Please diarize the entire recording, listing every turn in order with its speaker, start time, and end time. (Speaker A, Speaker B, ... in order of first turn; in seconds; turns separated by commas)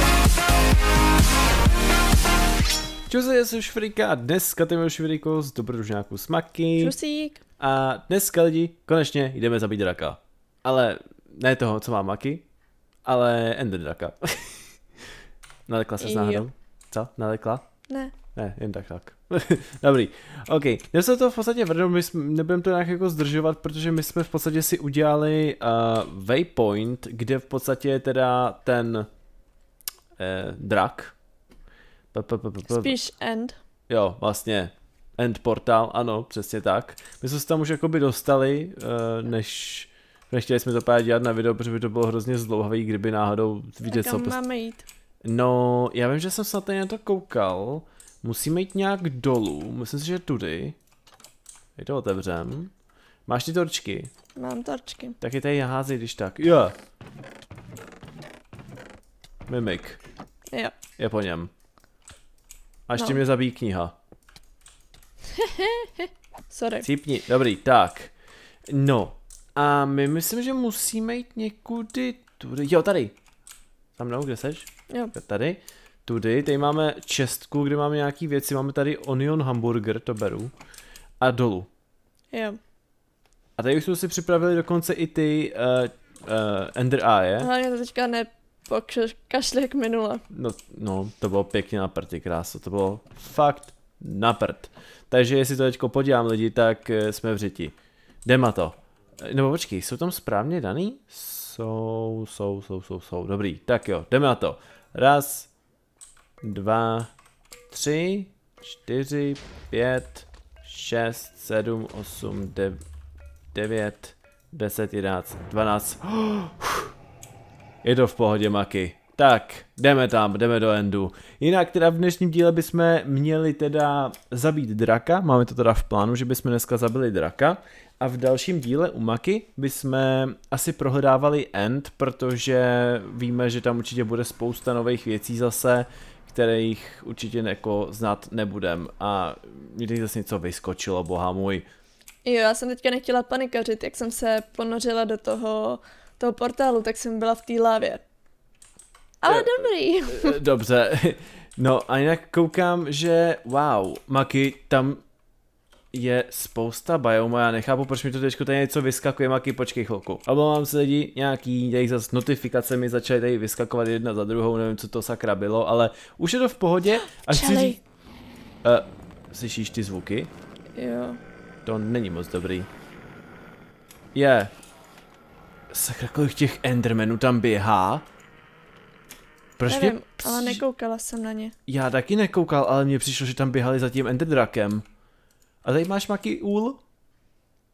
Speaker A: 3.1-6.9, Speaker B: 6.8-7.4, Speaker A: 7.6-12.4, Speaker A: 13.1-14.6, Speaker A: 15.7-17.7, Speaker B: 16.0-16.4, Speaker B: 17.9-18.1, Speaker A: 18.4-29.1, Speaker A: 30.2-31.1, Speaker A: 32.1-33.0, Speaker B: 32.7-33.6, Speaker A: 33.9-44.4, Speaker B: 43.9-44.9, Speaker A: 45.2-50.8, Speaker A: 51.8-52.7, Speaker A: 53.3-54.1, Speaker B: 54.4-55.2, Speaker A: 55.2-56.8, Speaker A: 59.5-60.0, Speaker B: 60.5-60.8, Speaker A: 61.0-61.5, Speaker A: 62.9-63.9, Speaker B: 65.3-66.8, Speaker A: 66.8-68.1, Speaker A: 68.7-73.2, Speaker A: 74.0-80.5, Speaker A: 81.2-81.7, Speaker B: 82.3-82.6, Speaker A: 83.6-87.5, Speaker B: 87.4-90.2, Speaker A: 90.3-97.7, Speaker A: 98.2-105.5, Speaker A: 106.4-107.1, Speaker A: 107.7-112.8, Speaker A: 113.5-116.9, Speaker A: 117.8-141.7, Speaker B: 142.2-148.0, Speaker B: 149.2-150.4, Speaker A: 149.3-155.0, Speaker A: 155.9-167.8, Speaker B: 167.3-167.8, Speaker A: 168.6-170.3, Speaker B: 170.8-171.2, Speaker A: 171.7-172.7, Speaker A: 174.2-174.5, Speaker A: 175.7-178.1, Speaker A: 179.6-180.6, Speaker B: 179.7-181.5, Speaker A: 181.7-184.8, Speaker A: 185.6-186.8